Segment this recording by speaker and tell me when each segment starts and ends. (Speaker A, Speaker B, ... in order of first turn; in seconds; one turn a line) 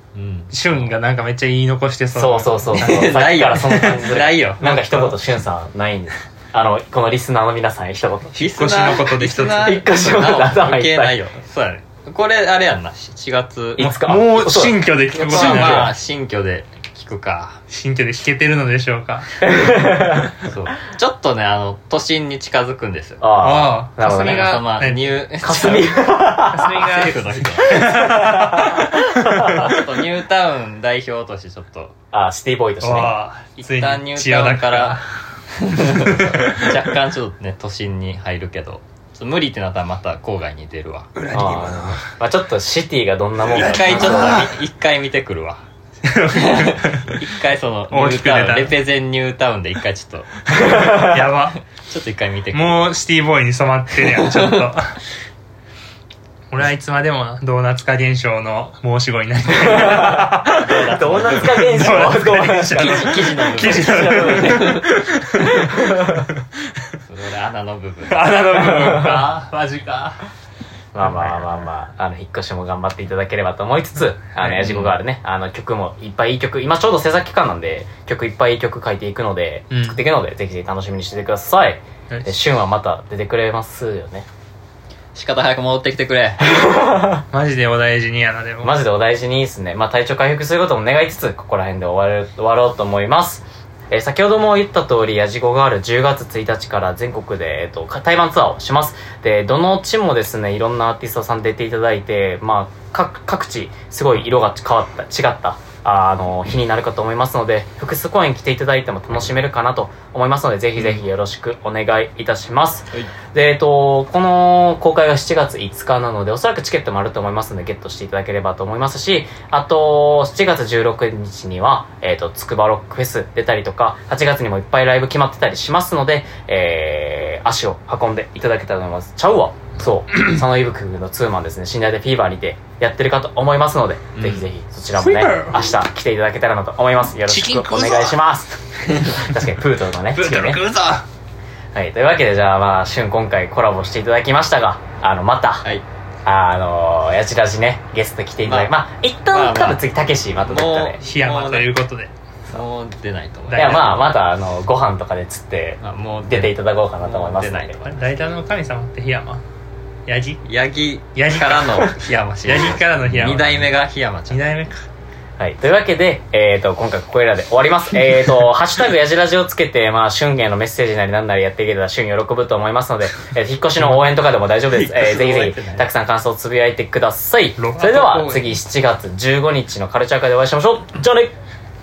Speaker A: 0.1-0.9
Speaker B: 0.5-5.2
Speaker C: 2.1-8.5
Speaker A: 2.7-4.6
Speaker B: 8.3-9.8
Speaker A: 8.3-13.8
Speaker C: 9.4-11.2
Speaker C: 13.8-15.9
Speaker B: 13.8-15.9
Speaker A: 15.1-17.6
Speaker B: 17.7-19.3
Speaker C: 19.4-20.3
Speaker A: 20.4-23.3
Speaker C: 23.2-24.6
Speaker B: 23.4-29.5
Speaker A: 24.1-27.8
Speaker C: 25.4-26.7
Speaker C: 27.6-29.7
Speaker A: 29.4-31.9
Speaker C: 32.1-33.2
Speaker B: 32.8-35.1
Speaker A: 33.6-41.1
Speaker B: 35.9-36.7
Speaker C: 36.0-36.4
Speaker B: 41.1-42.0
Speaker C: 41.3-44.5
Speaker B: 43.5-44.5
Speaker A: 43.5-45.6
Speaker B: 46.0-47.1
Speaker A: 46.3-50.4
Speaker B: 47.9-48.8
Speaker C: 50.5-51.2
Speaker B: 50.6-51.6
Speaker A: 51.7-52.9
Speaker B: 52.5-55.0
Speaker A: 54.2-54.4
Speaker B: 56.5-66.4
Speaker C: 59.6-64.8
Speaker A: 60.5-64.8
Speaker C: 65.6-66.2
Speaker A: 67.0-69.1
Speaker B: 68.1-70.2
Speaker C: 68.7-69.2
Speaker C: 70.9-84.2
Speaker B: 71.0-71.5
Speaker B: 74.3-74.7
Speaker A: 74.6-74.9
Speaker B: 79.7-80.0
Speaker A: 85.1-86.6
Speaker C: 86.5-87.2
Speaker B: 87.3-88.8
Speaker C: 88.6-140.6
Speaker A: 110.8-111.0
Speaker B: 130.1-130.4
Speaker A: 134.1-134.5
Speaker B: 134.9-135.7
Speaker B: 137.2-138.2
Speaker A: 138.9-139.2
Speaker B: 140.1-141.0
Speaker C: 141.7-145.7
Speaker C: 146.2-151.0
Speaker A: 148.4-148.7
Speaker A: 149.2-149.8
Speaker A: 150.4-151.7
Speaker B: 151.0-152.1
Speaker A: 152.5-154.0
Speaker B: 153.5-154.0
Speaker C: 153.5-157.8
Speaker A: 155.8-158.1
Speaker B: 157.8-159.4
Speaker B: 160.1-160.4
Speaker A: 160.4-164.6
Speaker B: 161.1-161.9
Speaker B: 162.4-163.7
Speaker B: 164.3-164.8
Speaker C: 165.4-181.3
Speaker B: 173.8-174.1
Speaker A: 174.7-175.9
Speaker B: 177.6-178.6